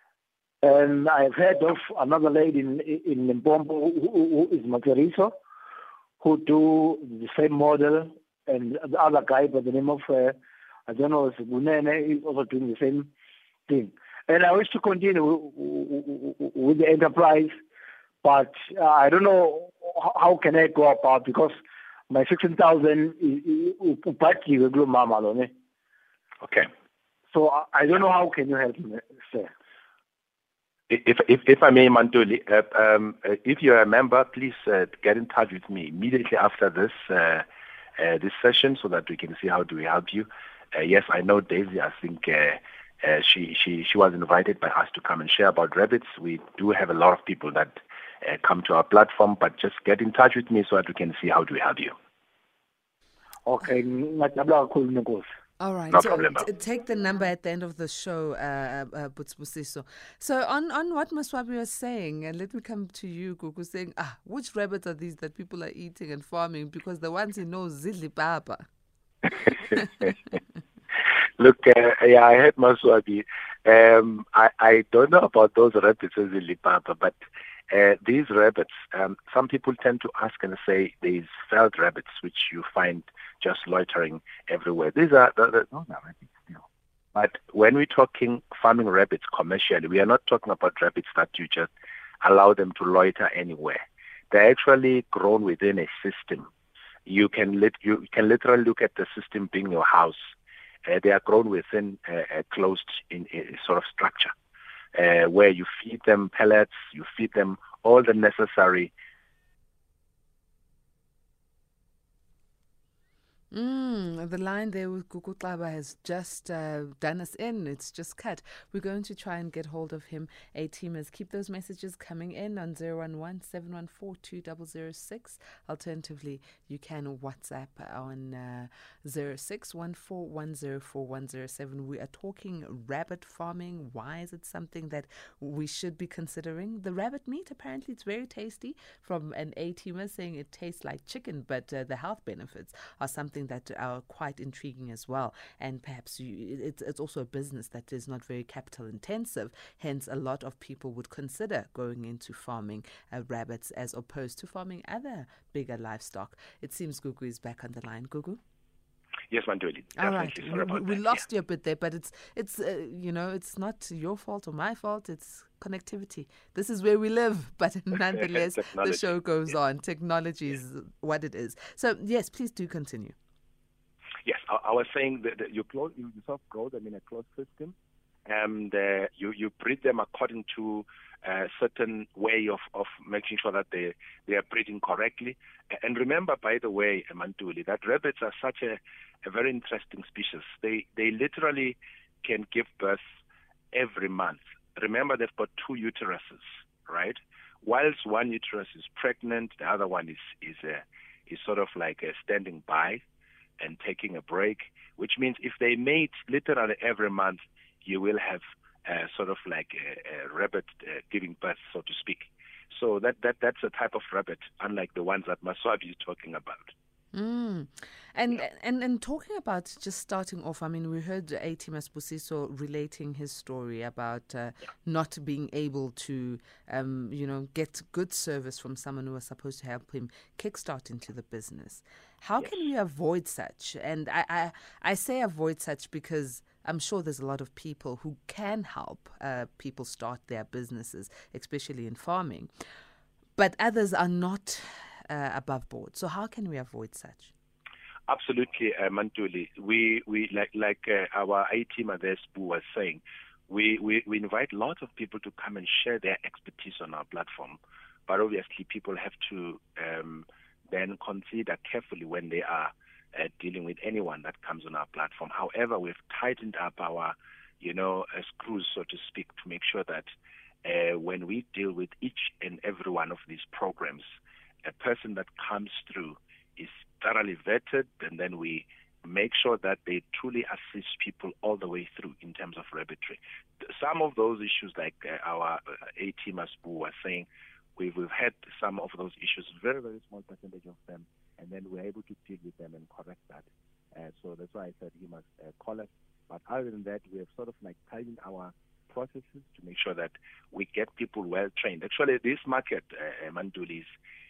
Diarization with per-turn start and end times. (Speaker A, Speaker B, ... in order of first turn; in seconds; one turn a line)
Speaker A: 0.6-5.3
Speaker A: 6.2-10.4
Speaker A: 10.9-13.1
Speaker A: 13.7-17.6
Speaker A: 18.2-21.6
Speaker A: 22.1-25.5
Speaker B: 26.4-26.7
Speaker A: 27.3-29.5
Speaker B: 30.9-37.5
Speaker B: 38.0-52.0
Speaker A: 53.5-55.3
Speaker C: 55.6-68.7
Speaker B: 55.9-56.5
Speaker C: 69.8-70.1
Speaker B: 71.4-77.2
Speaker B: 77.7-86.6
Speaker B: 87.2-91.7
Speaker B: 92.2-96.5
Speaker B: 97.1-100.3
Speaker B: 100.8-104.3
Speaker B: 104.9-108.9
Speaker C: 113.5-158.4
Speaker B: 159.3-161.2
Speaker C: 160.0-173.2
Speaker B: 168.6-169.1
Speaker B: 174.2-177.8
Speaker B: 178.3-193.0
Speaker B: 193.7-203.0
Speaker B: 203.6-216.7
Speaker C: 217.1-242.5
Speaker C: 243.4-247.3
Speaker B: 248.1-270.1
Speaker B: 270.6-274.0
Speaker B: 274.6-303.9